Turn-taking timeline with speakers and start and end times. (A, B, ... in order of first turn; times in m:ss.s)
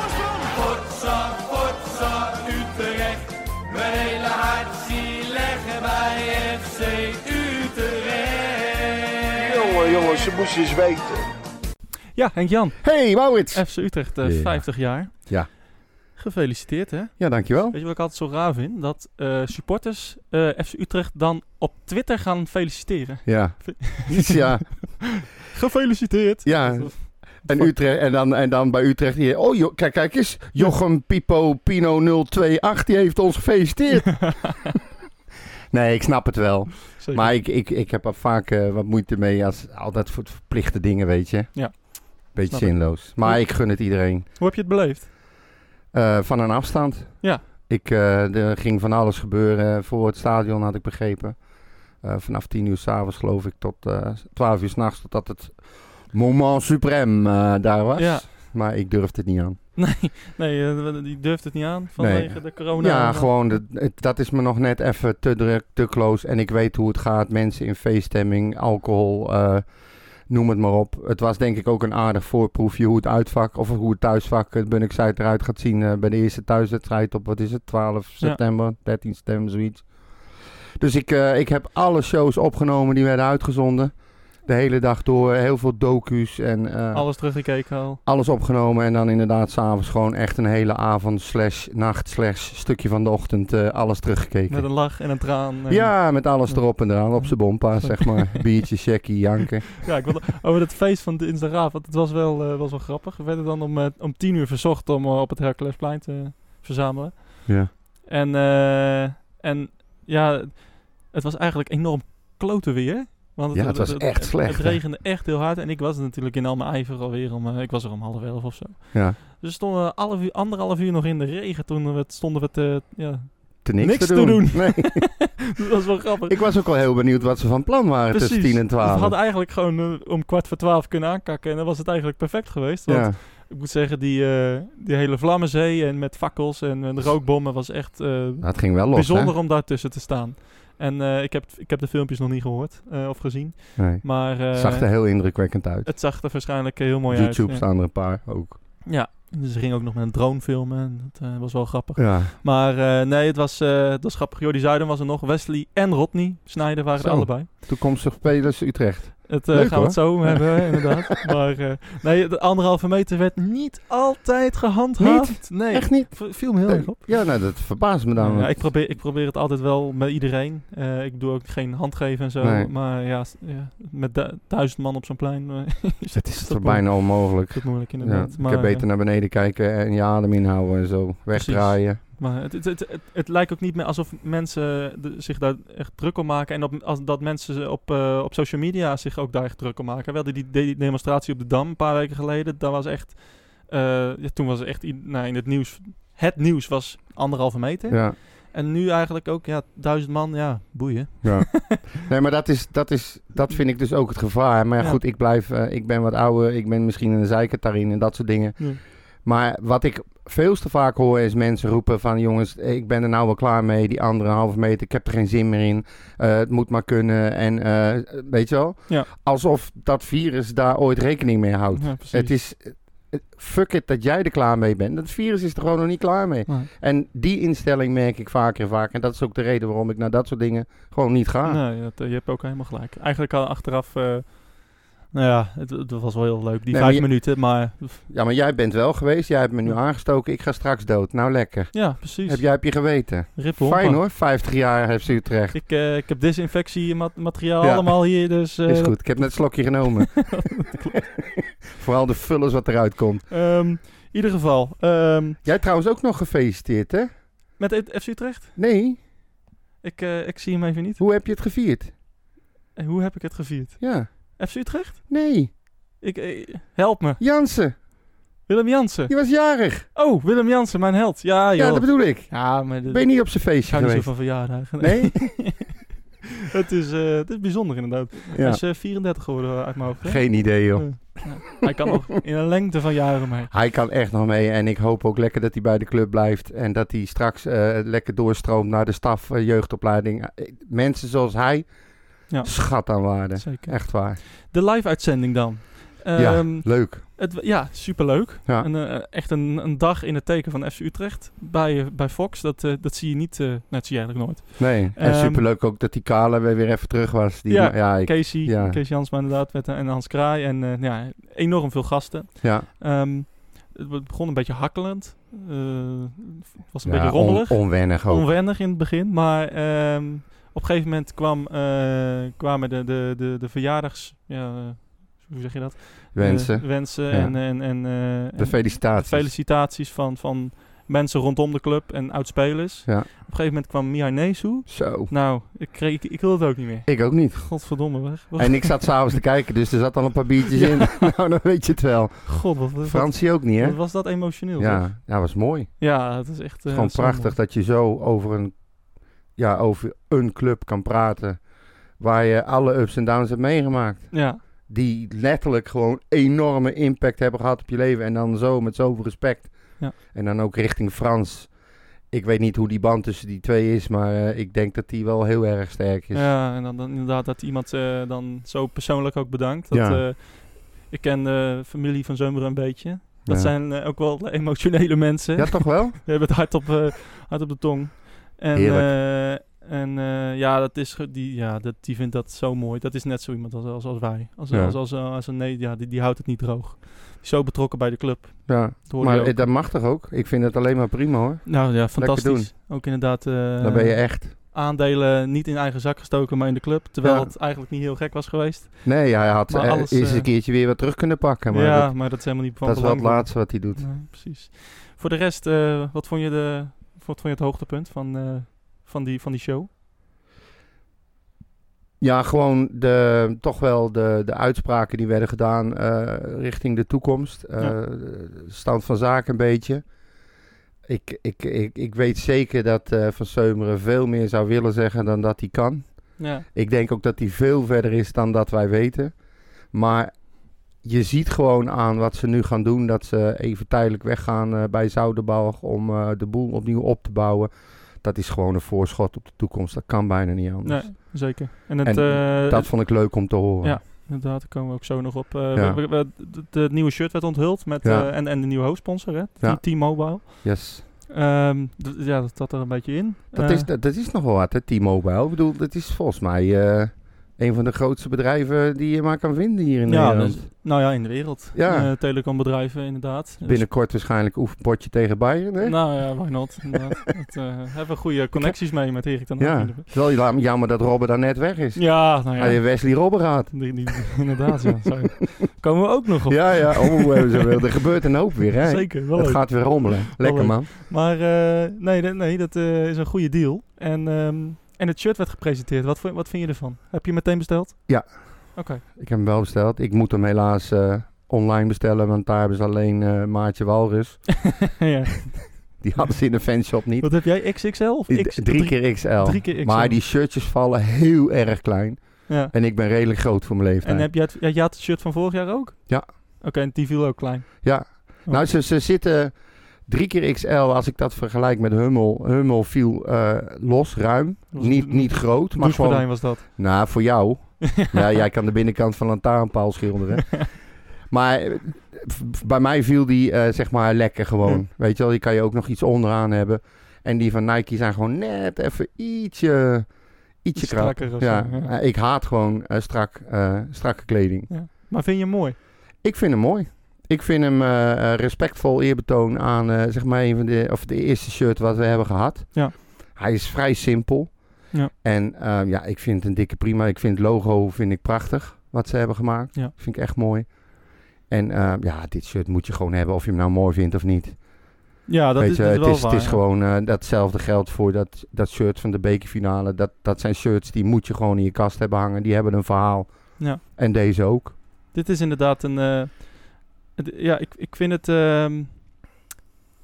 0:00.4-0:01.1 A
0:04.2-0:04.5 A
0:09.3-0:11.3 A
0:12.2-0:24.8 B
0:12.8-0:15.5 C
0:17.2-0:17.8 C
0:23.2-0:25.3 C
0:25.4-0:27.8 B
0:26.4-0:34.7 C
0:35.7-0:44.3 C
0:37.0-0:37.3 B
0:41.5-0:45.1 B
0:45.9-0:51.5 C
0:52.0-0:59.6 C
0:58.0-0:58.3 B
0:59.8-1:03.6 B
1:02.0-1:09.7 C
1:10.3-1:35.1 C
1:26.9-1:28.0 B
1:34.5-1:38.7 B
1:35.7-1:39.9 C
1:39.8-2:06.4 B
1:47.5-1:47.7 C
1:53.5-1:54.8 C
2:03.6-2:05.6 C
2:06.3-2:09.2 C
2:08.1-2:27.6 B
2:12.9-2:13.2 C
2:18.4-2:19.4 C
2:23.8-2:26.5 C
2:27.1-2:28.6 C
2:28.9-2:37.5 B
2:32.0-2:32.3 C
2:37.0-2:40.9 C
2:39.2-2:47.3 B
2:45.0-2:48.7 C
2:48.2-2:58.9 B
2:52.4-2:52.7 C
2:56.1-3:02.0 C
3:01.3-3:21.8 B
3:17.9-3:18.2 C
3:21.2-3:51.6 C
3:41.7-3:42.4 B
3:51.5-3:58.0 B
3:56.7-4:05.6 C
4:01.7-4:04.0 B
4:05.5-4:11.1 B
4:07.6-4:10.7 C
4:11.7-4:13.3 C
4:13.3-4:15.4 B
4:15.4-4:17.1 C
4:17.6-4:18.5 B
4:18.6-4:19.0 C
4:19.8-4:21.0 B
4:21.0-4:21.9 C
4:22.8-4:27.2 B
4:23.8-4:24.4 C
4:25.1-4:25.5 C
4:27.2-4:27.8 C
4:28.5-4:29.4 B
4:29.1-4:29.9 C
4:29.9-4:35.9 B
4:31.6-4:35.2 C
4:36.5-4:43.5 B
4:38.3-4:38.6 C
4:40.0-4:41.6 C
4:43.5-4:51.7 C
4:52.2-4:54.2 C
4:52.3-5:05.4 B
4:56.2-4:57.1 C
5:04.6-5:08.8 C
5:07.5-5:39.2 B
5:12.4-5:12.7 C
5:16.8-5:18.3 C
5:26.2-5:29.3 C
5:34.7-5:35.1 C
5:36.9-5:48.7 C
5:40.5-5:41.1 B
5:42.3-5:45.0 B
5:45.8-5:47.4 B
5:49.4-5:51.4 C
5:52.0-6:06.3 C
5:54.1-5:54.4 B
6:06.1-6:29.5 B
6:09.7-6:10.0 C
6:13.3-6:13.5 C
6:15.4-6:16.0 C
6:18.5-6:18.9 C
6:24.5-6:24.8 C
6:28.5-6:32.7 C
6:31.5-6:40.3 B
6:33.6-6:34.4 C
6:37.0-6:37.3 C
6:38.8-6:43.9 C
6:41.5-6:49.7 B
6:52.0-6:59.8 C
7:00.8-7:09.2 C
7:06.2-7:06.4 B
7:09.7-7:23.8 C
7:20.6-7:33.7 B
7:25.5-7:25.8 C
7:27.8-7:28.1 C
7:29.4-7:30.8 C
7:33.3-7:40.8 C
7:39.9-7:43.7 B
7:41.5-7:41.9 C
7:43.4-7:46.5 C
7:45.6-7:49.9 B
7:48.3-7:54.3 C
7:51.8-7:57.6 B
7:56.3-8:00.7 C
7:58.5-8:08.8 B
8:07.9-8:14.9 C
8:14.8-8:15.8 B
8:15.8-8:24.1 C
8:17.0-8:20.0 B
8:22.3-8:22.5 B
8:23.8-8:28.5 B
8:27.6-8:54.5 C
8:34.5-8:36.9 B
8:50.6-8:51.7 B
8:54.5-8:55.6 B
8:56.0-9:10.7 C
9:11.3-9:14.8 C
9:15.1-9:16.4 B
9:15.4-9:24.6 C
9:24.9-9:28.8 B